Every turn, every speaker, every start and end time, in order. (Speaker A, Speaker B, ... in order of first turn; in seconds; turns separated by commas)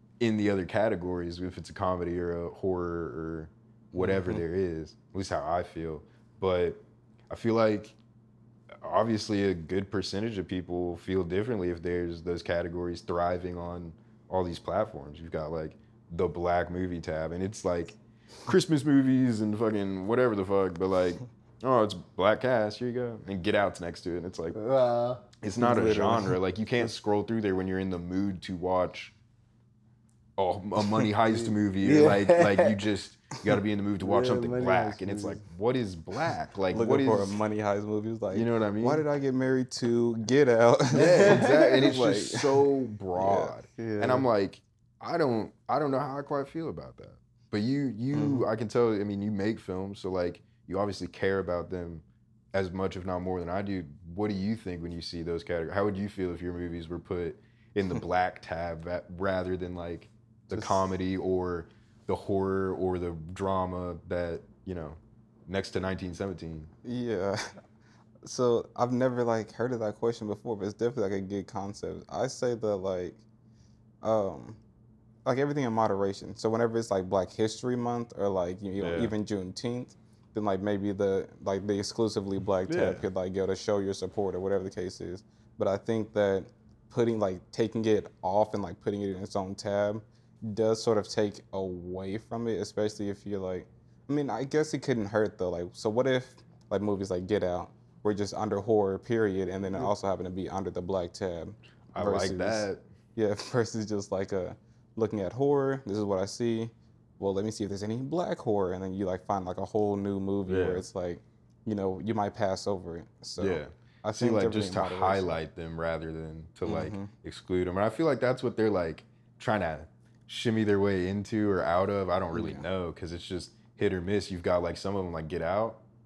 Speaker A: 0.2-8.0, Speaker B: 4.0-4.4, Speaker A: 8.8-24.6, Speaker C: 24.5-25.2, Speaker A: 25.4-29.1, Speaker B: 25.6-26.4, Speaker A: 30.4-37.4, Speaker C: 31.3-32.8, Speaker C: 34.0-35.4, Speaker B: 36.7-42.6, Speaker A: 38.3-39.0, Speaker A: 40.9-66.7, Speaker C: 41.0-41.9, Speaker B: 43.2-43.5, Speaker C: 43.8-44.2, Speaker B: 48.1-48.5, Speaker B: 60.5-60.8, Speaker B: 66.8-67.6, Speaker B: 68.2-73.2, Speaker B: 74.0-74.6, Speaker B: 75.2-115.4, Speaker A: 78.8-79.1, Speaker A: 82.7-83.0, Speaker A: 101.9-102.8, Speaker A: 110.5-110.8, Speaker A: 113.4-125.8, Speaker B: 116.6-117.1, Speaker B: 122.3-122.6